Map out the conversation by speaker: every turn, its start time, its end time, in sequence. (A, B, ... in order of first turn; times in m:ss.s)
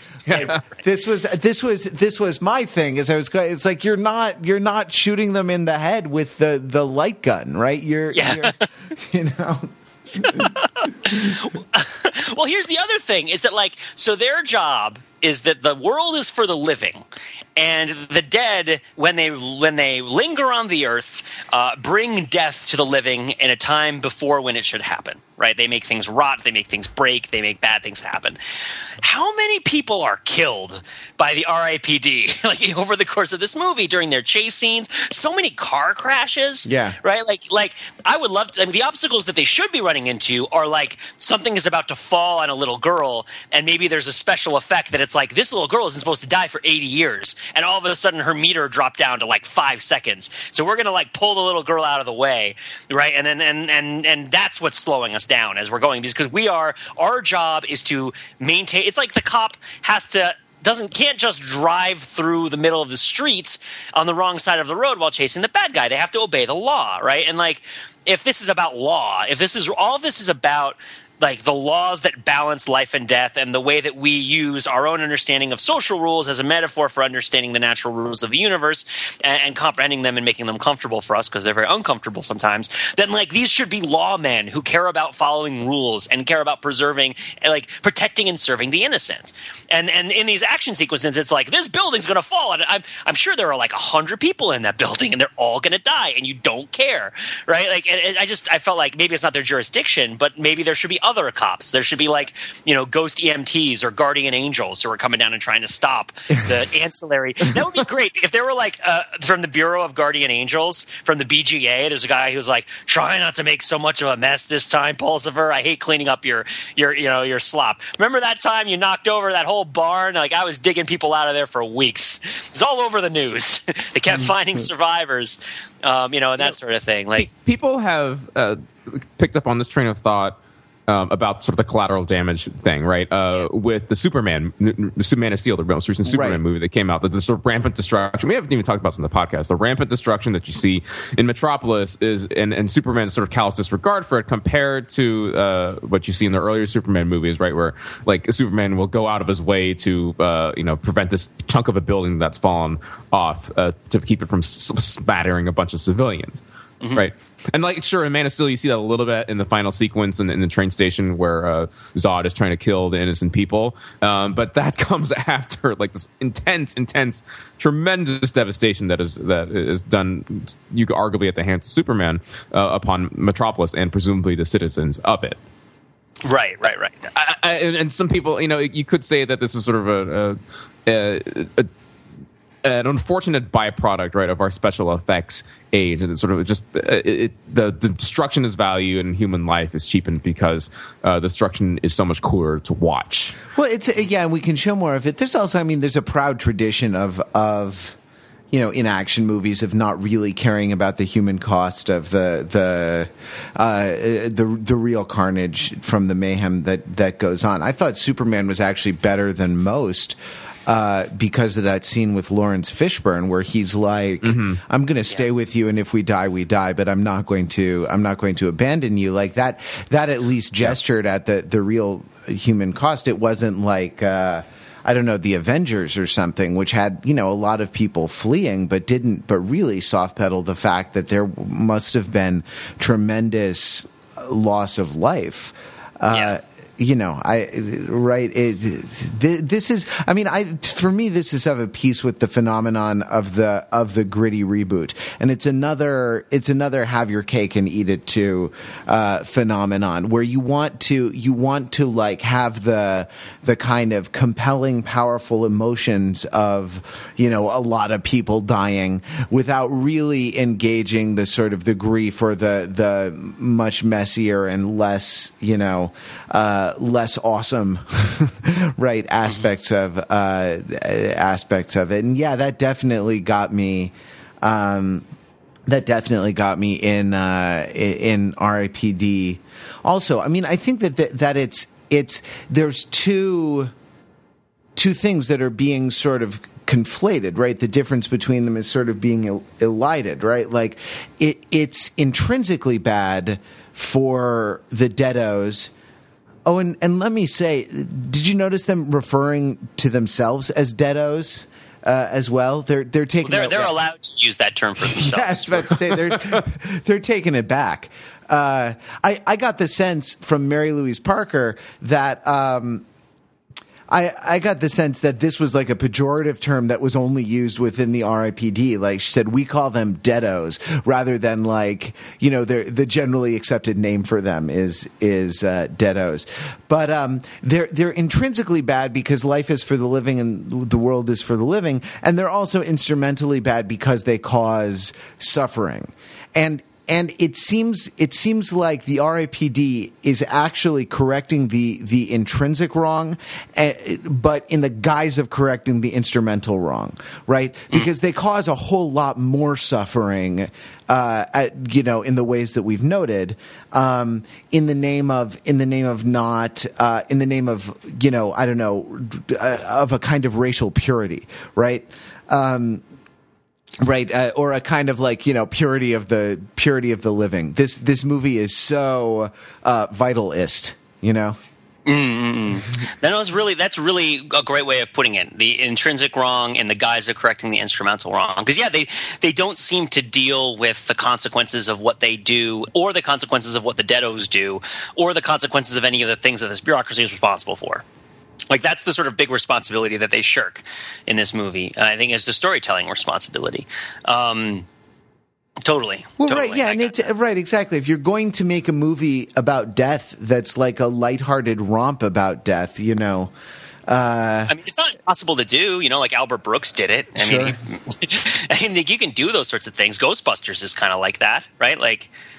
0:00.3-0:00.6 A
0:00.4-0:11.4 B
0:08.1-0:08.6 C
0:10.4-0:17.0 C
0:17.6-0:28.4 C
0:29.0-2:07.3 C
0:36.6-0:37.0 B
2:07.2-2:36.4 A
2:16.1-2:16.4 B
2:36.9-2:55.4 A
2:56.2-2:57.1 C
2:57.1-3:01.7 A
3:02.6-3:13.4 A
3:13.5-3:18.0 B
3:18.5-3:30.2 B
3:30.7-4:35.0 B
3:34.2-3:34.6 A
3:56.1-3:56.4 C
4:35.7-4:43.7 B
4:44.8-4:55.7 B
4:56.4-5:03.8 B
5:03.2-5:05.8 C
5:04.8-5:12.8 B
5:13.9-6:02.8 B
6:03.8-6:11.4 B
6:11.8-6:27.8 C
6:28.5-6:34.6 C
6:35.6-6:37.1 C
6:36.2-6:43.3 B
6:43.9-6:44.5 B
6:44.5-6:52.1 C
6:47.2-6:47.5 B